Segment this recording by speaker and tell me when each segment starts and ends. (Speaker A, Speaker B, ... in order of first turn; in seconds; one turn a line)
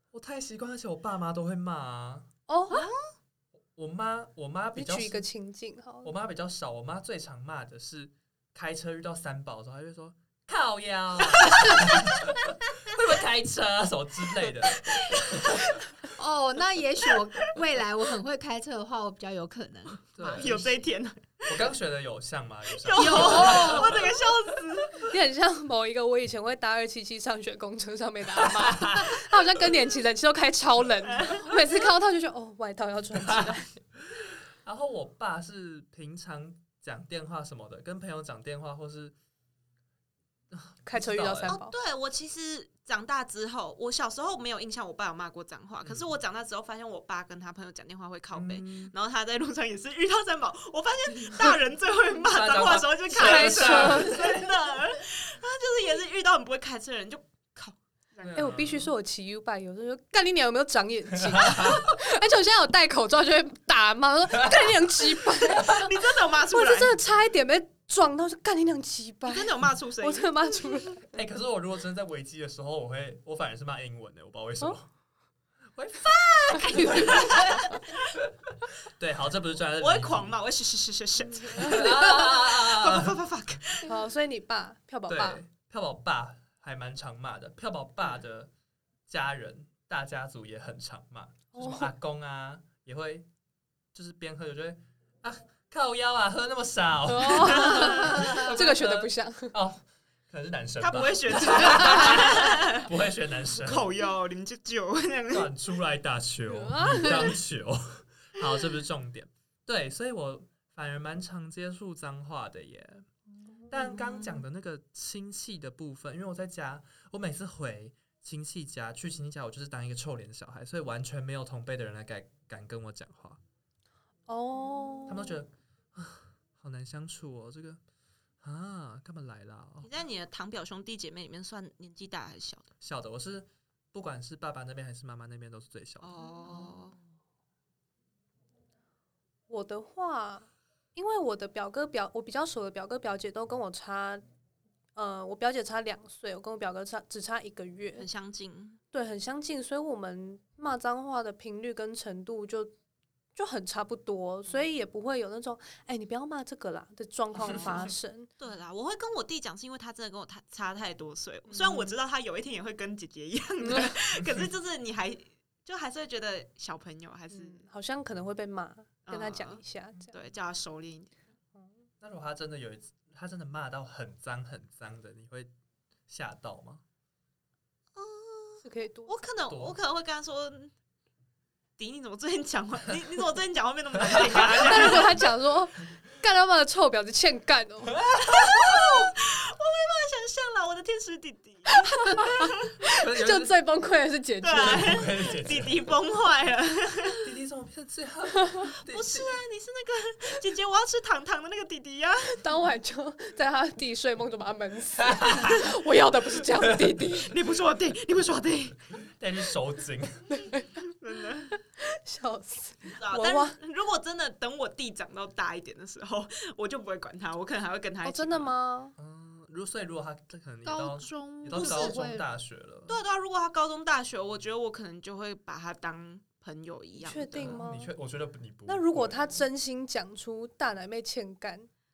Speaker A: 0.1-2.3
Speaker B: 2.5-2.9
Speaker C: 2.7-3.0
Speaker A: 3.7-5.2
Speaker B: 4.7-6.1
Speaker A: 6.0-15.7
Speaker D: 16.1-20.8
Speaker A: 20.1-20.6
Speaker C: 20.3-21.6
Speaker A: 21.5-24.1
Speaker C: 22.8-25.1
Speaker D: 23.0-23.9
Speaker B: 23.1-23.7
Speaker B: 25.0-33.7
Speaker A: 28.4-29.2
Speaker C: 31.1-31.6
Speaker A: 33.2-33.5
Speaker A: 34.1-39.1
Speaker A: 40.5-41.6
Speaker B: 40.9-41.7
Speaker C: 41.5-58.5
Speaker A: 45.8-46.1
Speaker A: 48.3-48.9
Speaker A: 52.2-54.5
Speaker B: 53.1-54.2
Speaker A: 58.2-58.9
Speaker B: 58.4-66.0
Speaker A: 61.2-61.8
Speaker A: 64.5-64.7
Speaker C: 65.5-67.0
Speaker B: 66.5-71.1
Speaker C: 69.2-70.8
Speaker A: 71.1-74.9
Speaker A: 75.7-80.3
Speaker C: 76.0-77.9
Speaker B: 76.5-77.5
Speaker C: 79.8-84.0
Speaker B: 81.3-81.9
Speaker A: 81.5-83.2
Speaker B: 83.8-85.4
Speaker A: 85.1-88.5
Speaker A: 89.1-93.3
Speaker B: 91.5-91.9
Speaker A: 93.9-103.9
Speaker B: 97.1-99.5
Speaker C: 97.6-98.1
Speaker C: 100.8-102.9
Speaker B: 101.7-102.1
Speaker C: 103.5-105.5
Speaker A: 105.3-113.0
Speaker B: 106.5-107.4
Speaker B: 113.7-114.2
Speaker A: 113.7-123.4
Speaker B: 124.3-125.4
Speaker A: 125.1-127.8
Speaker A: 128.4-129.9
Speaker C: 129.8-132.7
Speaker A: 132.8-136.1
Speaker C: 136.0-137.0
Speaker B: 139.5-144.2
Speaker B: 144.9-148.1
Speaker C: 148.0-148.8
Speaker B: 148.9-152.7
Speaker B: 153.3-158.3
Speaker C: 157.4-157.9
Speaker C: 158.4-167.6
Speaker B: 161.5-161.9
Speaker B: 163.6-164.0
Speaker A: 164.2-164.5
Speaker B: 167.3-170.1
Speaker C: 169.1-171.2
Speaker A: 172.0-175.5
Speaker A: 176.1-176.8
Speaker C: 177.9-180.7
Speaker B: 178.6-179.2
Speaker A: 179.5-179.8
Speaker C: 181.8-185.2
Speaker A: 184.0-185.1
Speaker B: 184.5-188.0
Speaker A: 188.0-188.6
Speaker C: 188.2-192.6
Speaker B: 191.8-195.1
Speaker A: 192.9-193.5
Speaker C: 194.4-197.2
Speaker A: 194.5-195.9
Speaker A: 197.2-199.4
Speaker C: 198.9-202.4
Speaker B: 202.4-207.3
Speaker A: 205.0-205.6
Speaker A: 206.6-206.9
Speaker C: 207.3-208.8
Speaker A: 208.9-210.3
Speaker B: 210.3-210.7
Speaker C: 211.0-211.6
Speaker B: 211.8-213.6
Speaker C: 212.9-218.5
Speaker B: 218.0-218.9
Speaker A: 219.0-223.0
Speaker D: 220.6-222.2
Speaker C: 221.6-221.9
Speaker C: 222.9-227.6
Speaker B: 227.0-227.9
Speaker A: 227.4-229.3
Speaker B: 228.7-231.7